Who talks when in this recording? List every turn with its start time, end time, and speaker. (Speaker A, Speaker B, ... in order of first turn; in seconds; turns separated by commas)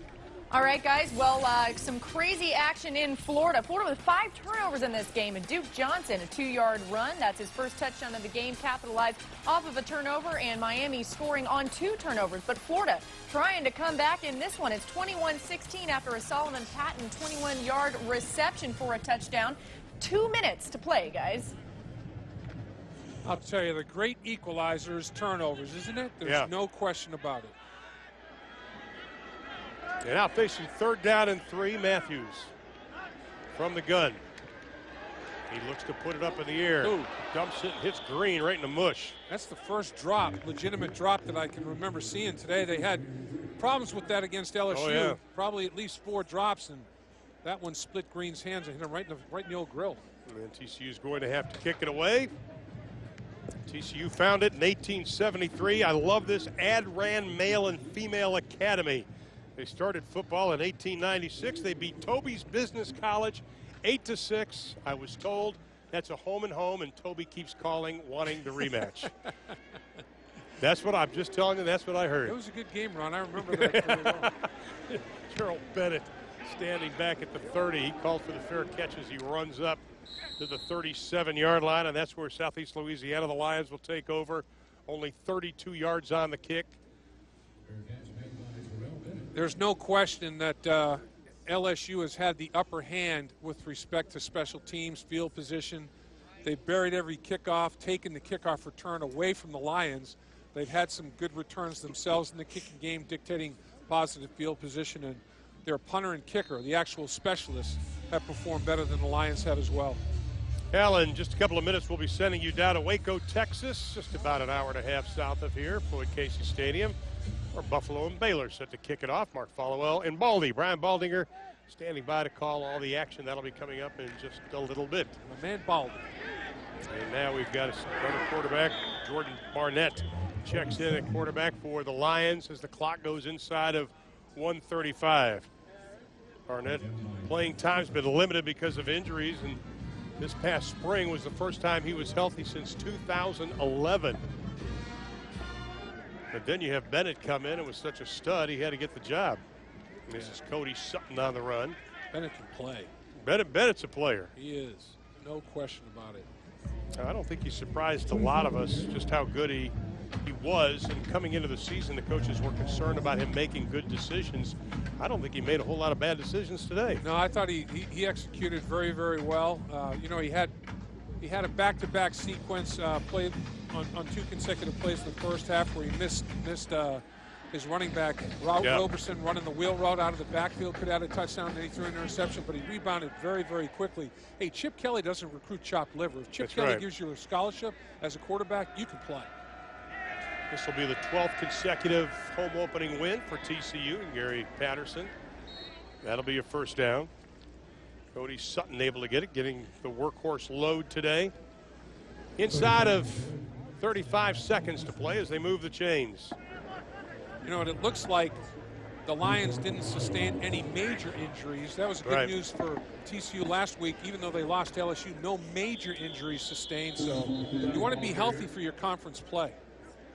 Speaker A: 0.5-21.5, Speaker B: 23.2-27.5, Speaker C: 26.2-26.5, Speaker C: 30.0-32.5, Speaker C: 33.5-34.2, Speaker C: 35.5-39.2, Speaker B: 36.8-37.1, Speaker B: 39.3-46.9, Speaker C: 44.7-45.2, Speaker B: 47.4-50.0, Speaker C: 50.2-52.4, Speaker C: 53.6-69.1, Speaker C: 70.6-72.3, Speaker B: 72.2-74.3, Speaker C: 73.4-79.8, Speaker C: 80.4-86.8, Speaker B: 89.3-95.9, Speaker B: 96.4-110.0, Speaker C: 110.7-117.0, Speaker C: 117.5-125.2, Speaker B: 125.2-126.1, Speaker C: 126.9-135.5, Speaker C: 136.5-139.6, Speaker C: 140.2-144.2, Speaker C: 146.3-149.4, Speaker C: 150.1-151.8, Speaker B: 152.1-152.9, Speaker C: 153.2-154.3, Speaker B: 154.3-156.3, Speaker C: 156.9-167.0, Speaker B: 167.0-170.6, Speaker B: 171.2-189.3, Speaker C: 178.6-178.9, Speaker C: 186.4-186.8, Speaker C: 190.5-195.1, Speaker C: 196.0-197.1, Speaker C: 198.1-201.3, Speaker C: 202.4-206.4, Speaker B: 207.4-208.4, Speaker B: 209.0-219.6, Speaker C: 212.0-212.3